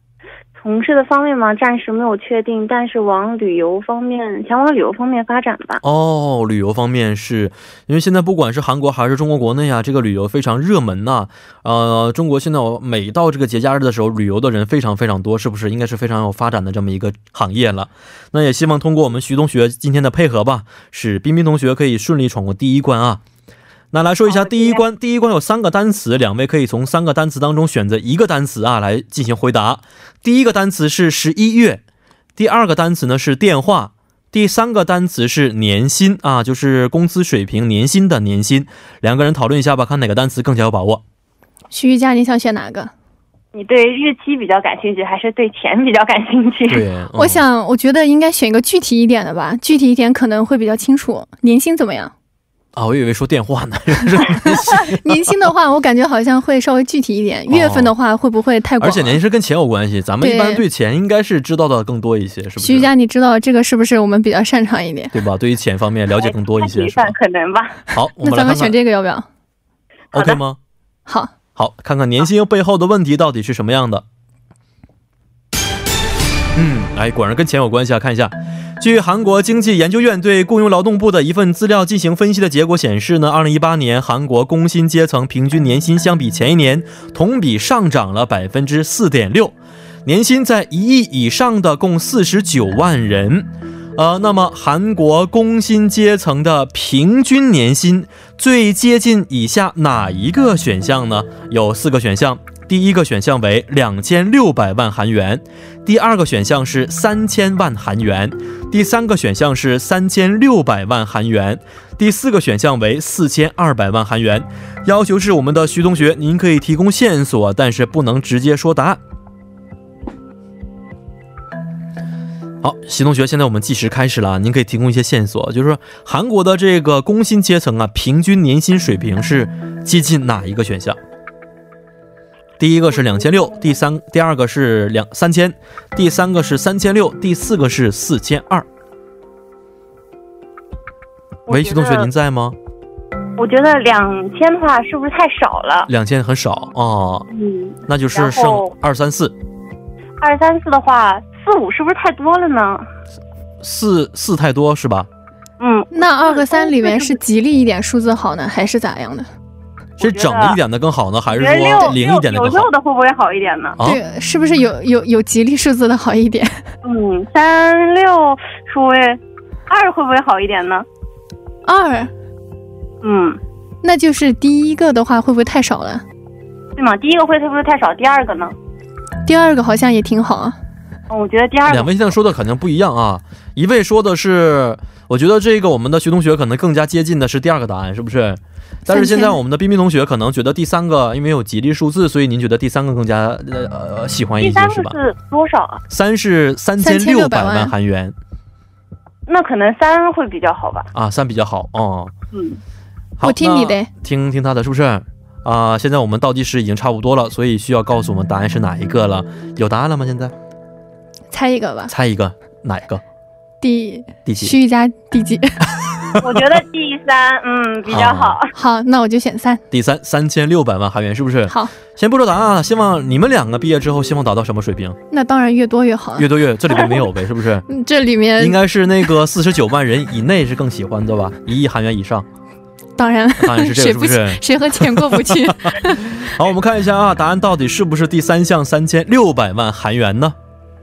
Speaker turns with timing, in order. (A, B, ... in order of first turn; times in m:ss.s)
0:00.6-0:05.8 A
0:05.8-0:23.2 B
0:23.9-0:31.8 B
0:24.3-0:24.8 A
0:32.4-0:41.0 B
0:41.7-0:42.9 C
0:43.5-0:46.9 A
0:46.7-0:47.4 B
0:47.2-0:52.1 C
0:52.7-0:55.3 B
0:54.9-0:59.2 C
0:57.5-0:57.9 B
0:58.8-1:02.9 B
1:00.2-1:00.6 C
1:02.6-1:05.1 C
1:05.1-1:07.2 B
1:06.2-1:07.8 A
1:07.9-1:08.8 B
1:08.2-1:09.3 C
1:10.1-1:10.4 A
1:10.1-1:10.6 B
1:11.1-1:11.3 C
1:11.6-1:14.0 B
1:16.6-1:59.0 B
2:02.6-2:11.0 B
2:12.6-2:18.7 B
2:21.5-2:22.1 A
2:21.5-2:22.6 B
2:23.4-2:25.9 A
2:25.9-2:27.3 B
2:27.3-2:28.7 A
2:27.9-2:29.4 B
2:30.2-2:32.9 A
2:33.6-2:35.1 B
2:35.6-2:37.2 A
2:35.9-2:39.3 C
2:40.0-2:40.6 A
2:40.0-2:42.7 B
2:41.3-2:43.8 A
2:43.8-2:46.6 C
2:46.8-2:50.8 A
2:51.6-2:52.1 C
2:53.0-2:53.4 A
2:53.8-2:56.0 C
2:56.8-2:58.6 A
2:59.3-3:00.6 C
3:01.1-3:01.9 A
3:01.7-3:15.0 B
3:08.9-3:09.4 C
3:14.4-3:15.8 A
3:15.9-3:18.2 B
3:16.8-3:17.7 C
3:19.3-3:20.9 A
3:20.9-3:22.1 B
3:22.3-3:22.6 A
3:23.2-3:30.3 B
3:23.2-3:23.9 C
3:31.3-3:31.9 C
3:31.9-3:33.0 B
3:33.6-3:35.6 C
3:34.2-3:34.5 B
3:36.1-3:36.5 B
3:36.2-3:38.5 A
3:37.9-3:38.4 B
3:38.5-3:39.6 C
3:39.7-3:45.0 B
3:41.5-3:41.7 C
3:45.1-3:46.3 C
3:46.2-3:47.7 B
3:47.7-3:48.6 C
3:48.4-3:52.3 B
3:53.0-3:56.1 C
3:53.4-4:00.4 B